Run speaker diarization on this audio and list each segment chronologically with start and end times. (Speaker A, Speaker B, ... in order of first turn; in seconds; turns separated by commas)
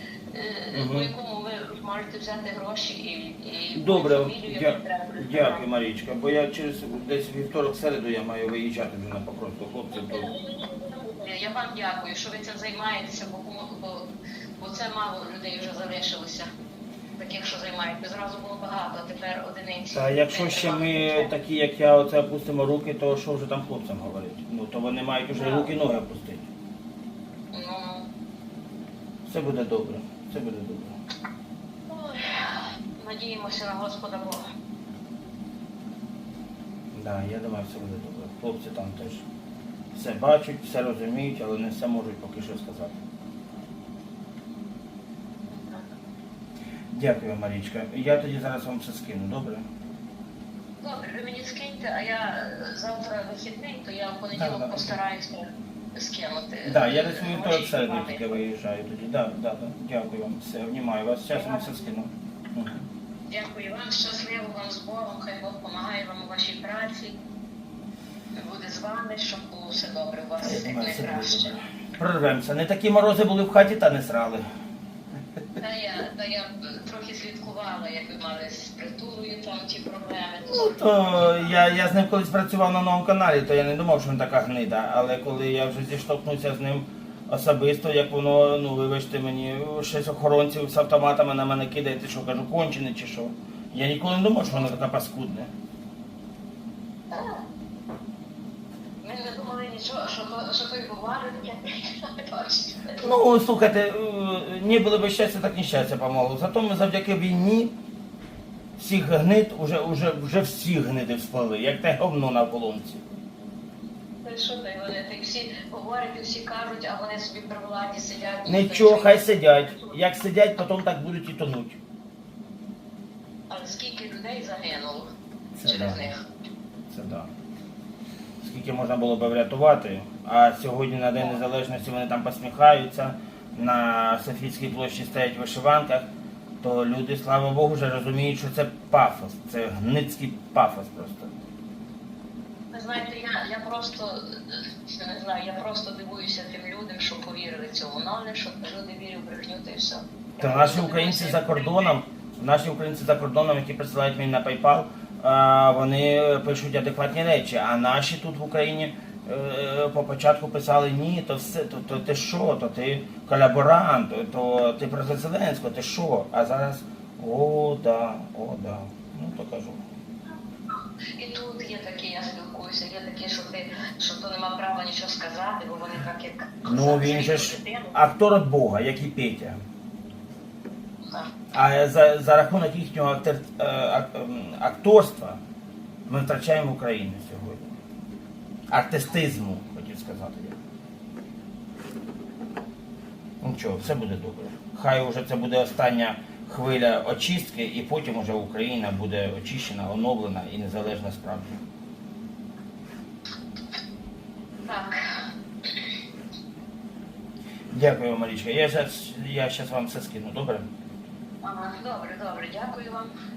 Speaker A: 0.3-5.7, Speaker B: 0.7-1.1, Speaker B: 3.8-10.3, Speaker A: 9.9-16.5, Speaker A: 17.2-21.3, Speaker B: 19.9-26.5, Speaker A: 25.3-25.7, Speaker A: 27.5-28.1, Speaker B: 29.3-31.0, Speaker A: 31.9-34.5, Speaker B: 36.9-39.2, Speaker B: 39.9-43.0, Speaker A: 45.5-45.9, Speaker B: 46.9-49.6, Speaker A: 50.8-58.4, Speaker B: 54.3-54.9, Speaker B: 56.6-62.9, Speaker A: 61.3-61.7, Speaker A: 63.3-67.2, Speaker A: 68.3-71.6, Speaker B: 70.4-74.4, Speaker A: 75.6-81.6, Speaker B: 80.5-95.5, Speaker A: 97.1-97.4, Speaker A: 99.0-103.1, Speaker B: 103.0-107.7, Speaker B: 108.8-113.0, Speaker A: 114.2-120.0, Speaker B: 118.5-121.8, Speaker A: 123.5-125.1, Speaker B: 125.6-126.0, Speaker A: 125.6-126.2, Speaker B: 126.9-127.3, Speaker B: 128.4-136.1, Speaker B: 136.6-141.3, Speaker A: 142.7-152.0, Speaker B: 150.4-169.8, Speaker A: 171.2-178.0, Speaker B: 176.6-179.6, Speaker B: 181.5-185.4, Speaker B: 186.1-187.7, Speaker B: 188.7-190.6, Speaker B: 193.4-201.6, Speaker A: 204.7-205.9, Speaker B: 207.7-210.7, Speaker A: 211.4-213.1